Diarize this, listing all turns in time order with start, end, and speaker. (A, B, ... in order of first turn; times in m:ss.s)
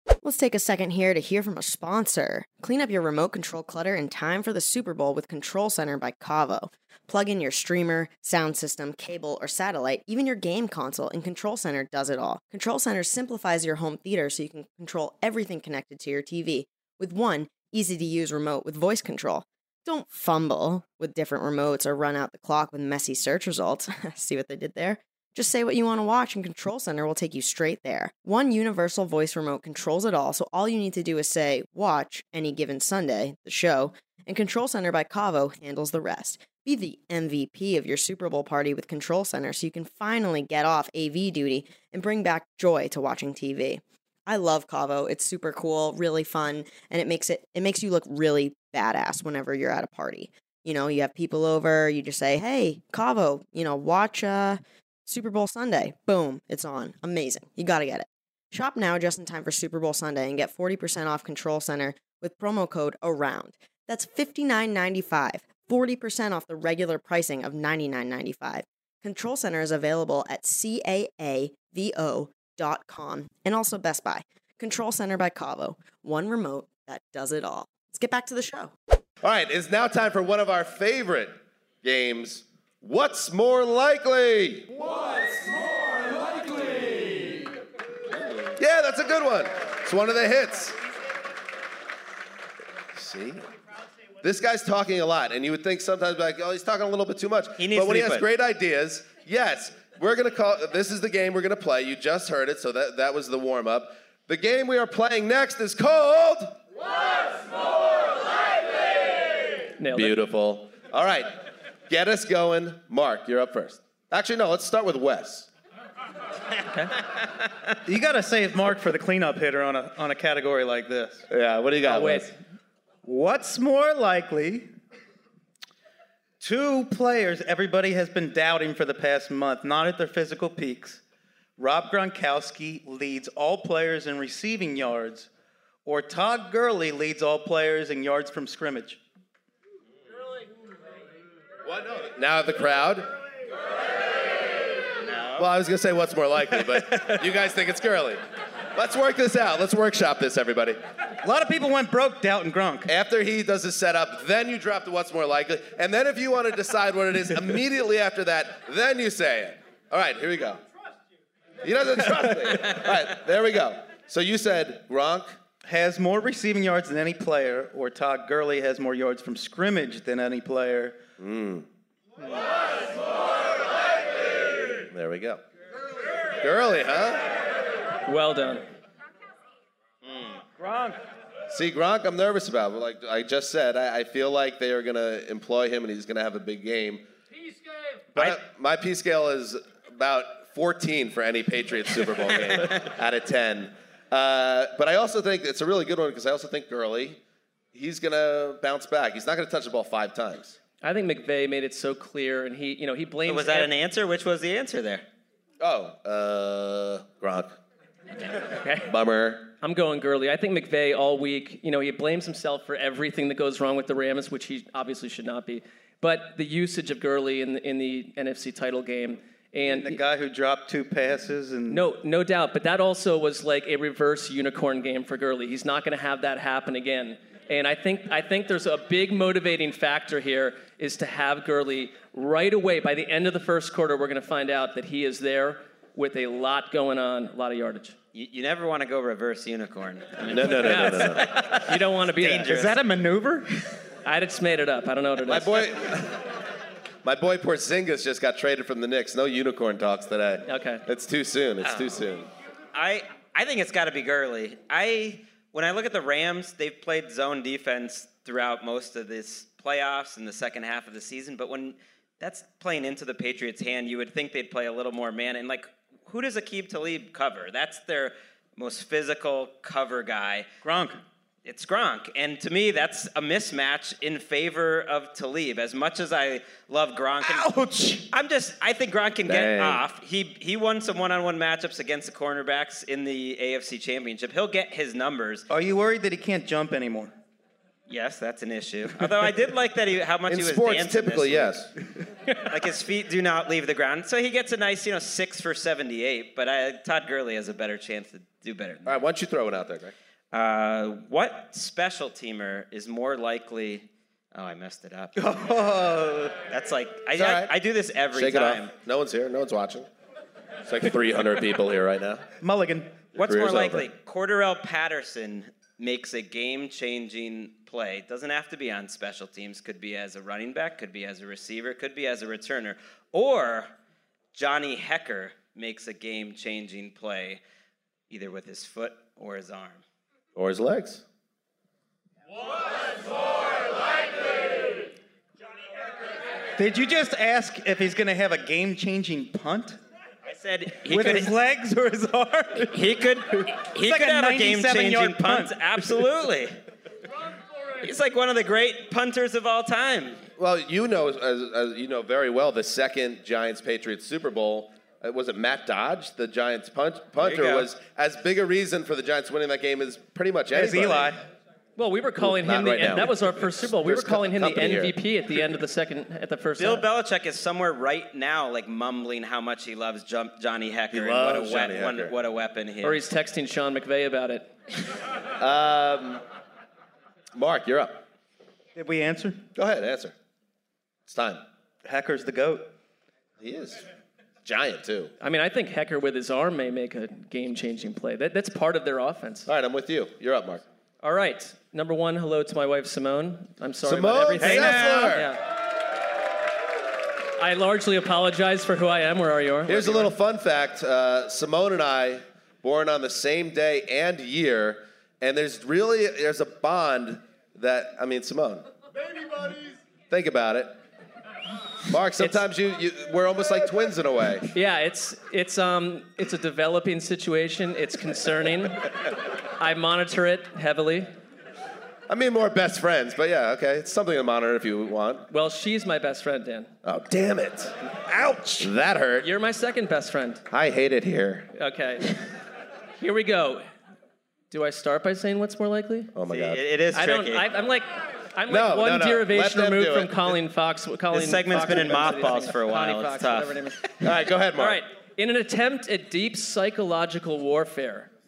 0:00.2-1:18.7 A
1:19.2-1:24.7 B
1:28.6-1:30.8 B
1:33.0-1:33.4 B
1:34.2-1:46.6 B
1:37.6-1:38.2 C
1:49.8-1:50.2 D
1:49.9-1:51.3 B
1:51.9-1:55.5 B
1:57.8-2:01.3 E
2:01.3-2:02.3 B
2:01.8-2:02.3 D
2:03.0-2:04.7 E
2:06.4-2:11.0 E
2:11.6-2:15.3 E
2:15.8-2:19.0 E
2:21.6-2:23.1 B
2:25.0-2:25.5 C
2:25.4-2:28.2 B
2:28.8-2:30.8 B
2:31.2-2:32.9 E
2:32.9-2:40.6 B
2:41.6-2:45.4 B
2:45.6-2:51.0 E
2:51.2-2:51.7 B
2:54.9-2:55.4 B
2:56.4-2:57.3 B
2:58.1-2:58.6 D
3:00.6-3:01.0 E
3:01.5-3:07.0 B
3:08.1-3:17.2 B
3:17.7-3:20.6 B
3:20.8-3:23.7 D
3:23.3-3:25.0 C
3:25.6-3:27.6 B
3:28.6-3:28.9 D
3:28.9-3:29.5 B
3:29.6-3:40.0 D
3:39.7-3:41.8 E
3:41.7-3:58.0 D
3:58.1-4:02.8 C
4:00.3-4:01.4 B
4:00.6-4:02.5 D
4:02.2-4:03.5 E
4:04.0-4:05.7 D
4:05.3-4:06.2 B
4:07.0-4:12.3 B
4:10.5-4:10.8 D
4:11.6-4:12.0 C
4:12.7-4:30.5 C
4:30.6-4:31.0 E
4:31.4-4:37.5 C
4:37.2-4:38.1 E
4:38.1-4:45.5 C
4:39.2-4:39.8 B
4:45.5-4:47.1 E
4:47.9-4:51.6 C
4:50.3-4:51.7 B
4:52.4-4:58.9 C
4:58.8-4:59.9 B
5:00.3-5:05.2 C
5:05.2-5:06.4 E
5:06.5-5:08.7 C
5:07.2-5:07.5 B
5:08.1-5:09.9 B
5:10.7-5:12.2 B
5:12.4-5:13.0 E
5:13.2-5:23.7 C
5:13.2-5:13.9 B
5:24.3-5:27.4 C
5:28.1-5:29.8 C
5:30.4-5:31.0 B
5:36.6-5:39.8 E
5:40.2-5:41.3 C
5:40.8-5:42.8 E
5:42.7-5:46.6 C
5:43.4-5:45.8 E
5:47.8-5:50.2 C
5:50.4-6:01.2 B
5:57.2-5:57.7 C
6:00.5-6:01.2 E
6:01.8-6:06.9 D
6:02.2-6:05.0 B
6:06.6-6:13.0 C
6:10.9-6:12.2 B
6:12.8-6:14.5 D
6:15.4-6:16.2 B
6:17.4-6:18.0 B
6:18.8-6:19.5 E
6:19.6-6:20.1 B
6:21.1-6:21.4 B
6:21.8-6:22.7 E
6:23.4-6:23.9 B
6:24.4-6:25.1 B
6:25.2-6:29.5 D
6:29.5-6:30.6 B
6:31.0-6:35.4 D
6:33.8-6:35.3 B
6:37.4-6:40.1 D
6:39.7-6:48.7 B
6:50.1-6:50.8 B
6:51.9-6:54.5 B
6:54.5-6:58.9 D
6:59.6-7:01.1 D
7:02.1-7:05.3 B
7:05.3-7:06.7 D
7:06.8-7:07.7 B
7:08.6-7:09.3 B
7:09.2-7:10.4 D
7:10.5-7:11.5 B
7:11.5-7:12.2 D
7:13.0-7:13.7 D
7:14.5-7:16.1 D
7:16.1-7:16.6 B
7:16.3-7:17.5 C
7:16.9-7:23.9 D
7:18.5-7:20.4 B
7:21.1-7:23.7 C
7:24.0-7:24.8 B
7:24.6-7:28.1 D